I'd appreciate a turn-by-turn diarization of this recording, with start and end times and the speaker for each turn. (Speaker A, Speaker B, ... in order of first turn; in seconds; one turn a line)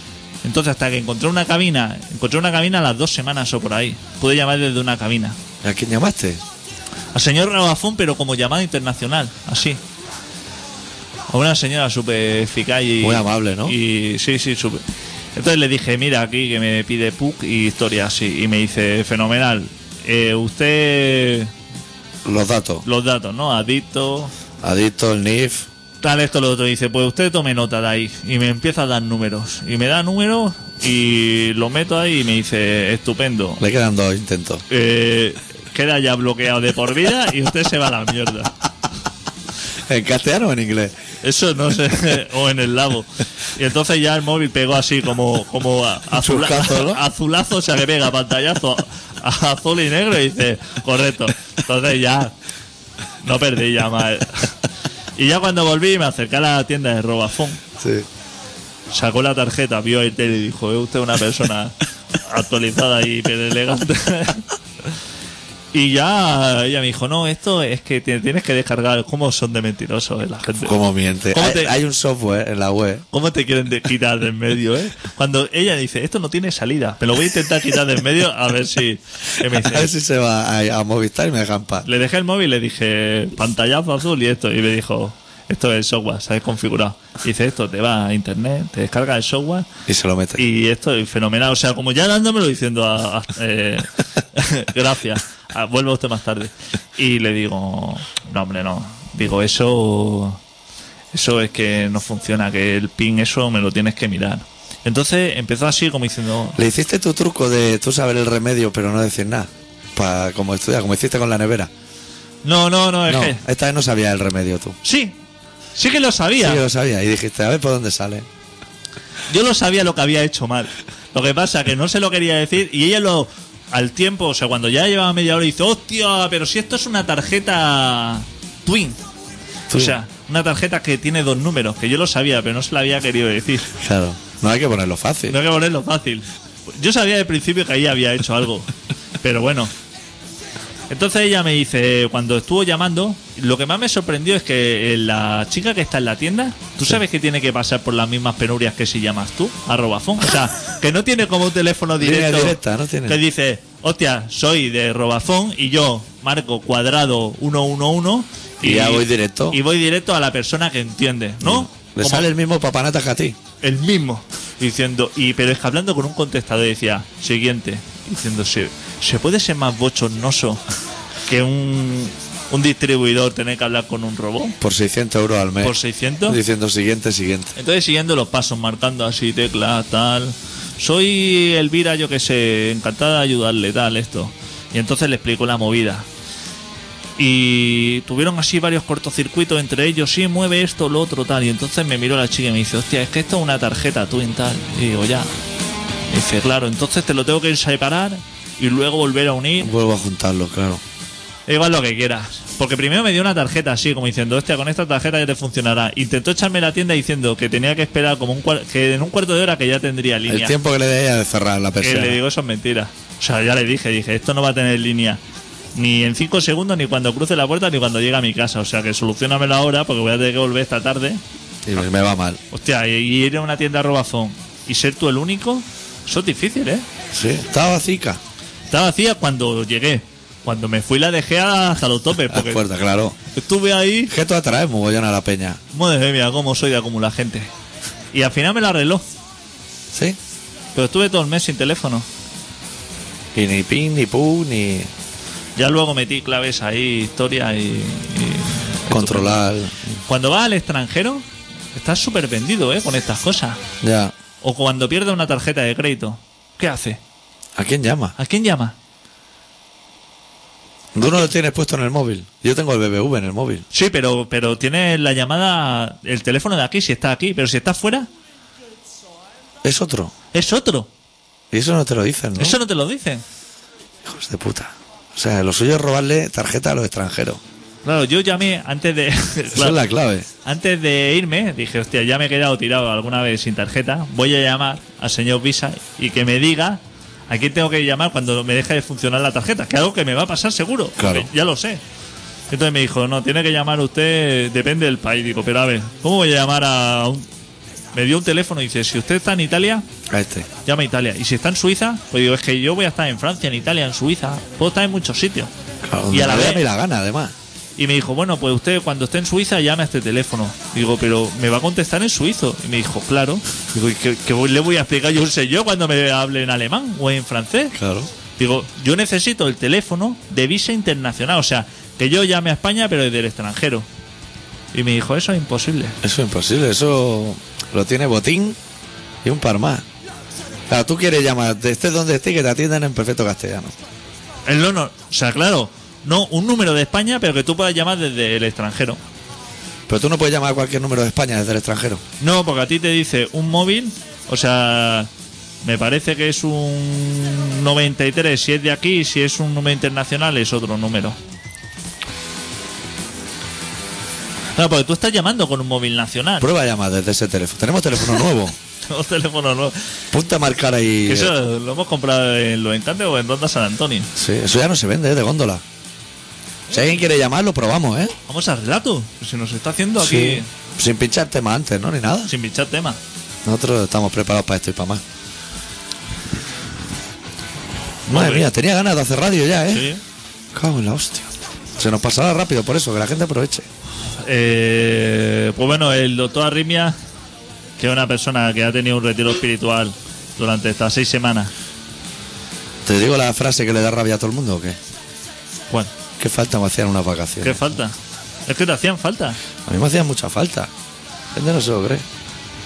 Speaker A: 0.4-5.4
Speaker B: 5.6-6.4
Speaker A: 7.1-9.8
Speaker A: 11.3-14.8
Speaker B: 13.0-13.8
Speaker A: 15.4-21.5
Speaker B: 22.2-22.9
Speaker A: 22.9-24.3
Speaker B: 24.6-25.7
Speaker A: 26.0-33.6
Speaker B: 33.6-34.6
Speaker A: 34.7-38.5
Speaker B: 39.9-41.0
Speaker A: 41.2-52.3
Speaker B: 46.1-47.0
Speaker A: 53.2-54.5
Speaker A: 55.2-57.6
Speaker B: 57.8-58.1
Speaker A: 58.9-65.0
Speaker A: 65.7-70.8
Speaker B: 70.6-73.0
Speaker A: 71.3-71.8
Speaker A: 73.1-79.9
Speaker B: 79.5-81.9
Speaker A: 81.8-89.7
Speaker B: 89.9-90.4
Speaker A: 90.4-100.4
Speaker A: 101.1-106.6
Speaker B: 106.6-111.7
Speaker A: 112.4-113.4
Speaker B: 113.1-114.8
Speaker A: 114.8-115.2
Speaker A: 115.8-116.6
Speaker B: 116.4-118.3
Speaker A: 119.3-129.0
Speaker B: 129.7-130.0
Speaker A: 129.7-133.7
Speaker B: 133.8-135.4
Speaker A: 135.3-138.7
Speaker A: 139.2-139.7
Speaker A: 140.9-162.3
Speaker B: 152.0-153.2
Speaker B: 158.6-159.6
Speaker B: 161.4-163.4
Speaker A: 163.6-170.6
Speaker A: 171.3-174.6
Speaker B: 174.6-177.5
Speaker A: 175.6-176.4
Speaker A: 177.6-186.1
Speaker A: 187.2-195.3
Speaker A: 196.1-199.7
Speaker B: 199.6-200.8
Speaker A: 201.5-210.6
Speaker B: 210.3-212.2
Speaker A: 211.8-215.2
Speaker A: 215.8-221.2
Speaker B: 221.7-222.4
Speaker A: 222.5-226.8
Speaker B: 227.1-228.2
Speaker A: 228.7-232.6
Speaker B: 232.3-233.2
Speaker A: 233.3-234.1
Speaker B: 234.1-235.6
Speaker A: 235.7-237.5
Speaker A: 238.1-239.0
Speaker B: 239.9-240.2
Speaker A: 240.8-242.1
Speaker B: 243.3-244.9
Speaker A: 245.6-249.4
Speaker B: 248.9-250.0
Speaker A: 250.1-253.6
Speaker B: 253.8-254.1
Speaker A: 254.4-257.0
Speaker B: 257.6-258.2
Speaker A: 258.2-258.8
Speaker B: 260.9-263.7
Speaker A: 263.7-268.1
Speaker B: 269.6-270.1
Speaker A: 270.3-270.9
Speaker B: 271.5-272.6
Speaker A: 272.4-273.2
Speaker B: 274.1-277.4
Speaker A: 277.8-279.8
Speaker B: 279.5-280.3
Speaker A: 280.4-291.8
Speaker B: 291.0-291.3
Speaker A: 292.5-297.3
Speaker A: 297.9-299.9
Speaker B: 300.1-300.5
Speaker A: 300.6-305.5
Speaker B: 305.8-307.3
Speaker A: 306.1-306.6
Speaker A: 307.8-317.8
Speaker B: 317.8-318.1
Speaker A: 318.4-323.9
Speaker A: 324.7-326.0
Speaker B: 326.0-328.6
Speaker B: 329.2-329.9
Speaker B: 330.7-333.8
Speaker A: 334.5-339.0
Speaker B: 339.9-342.0
Speaker A: 342.2-345.1
Speaker A: 345.6-351.2
Speaker A: 354.6-356.5
Speaker B: 356.4-358.6
Speaker A: 358.9-359.8
Speaker B: 360.1-361.3
Speaker A: 361.1-364.1
Speaker B: 364.2-365.6
Speaker B: 366.7-368.1
Speaker A: 368.3-370.5
Speaker B: 370.0-372.3
Speaker A: 372.3-373.0
Speaker B: 373.4-375.0
Speaker B: 378.1-379.9
Speaker A: 378.1-378.5
Speaker A: 379.7-380.0
Speaker B: 380.5-383.7
Speaker A: 384.2-387.0
Speaker A: 387.8-391.5
Speaker B: 392.9-394.8
Speaker B: 396.2-397.8
Speaker A: 397.4-398.0
Speaker A: 398.5-399.4
Speaker B: 399.7-400.7
Speaker B: 401.3-402.1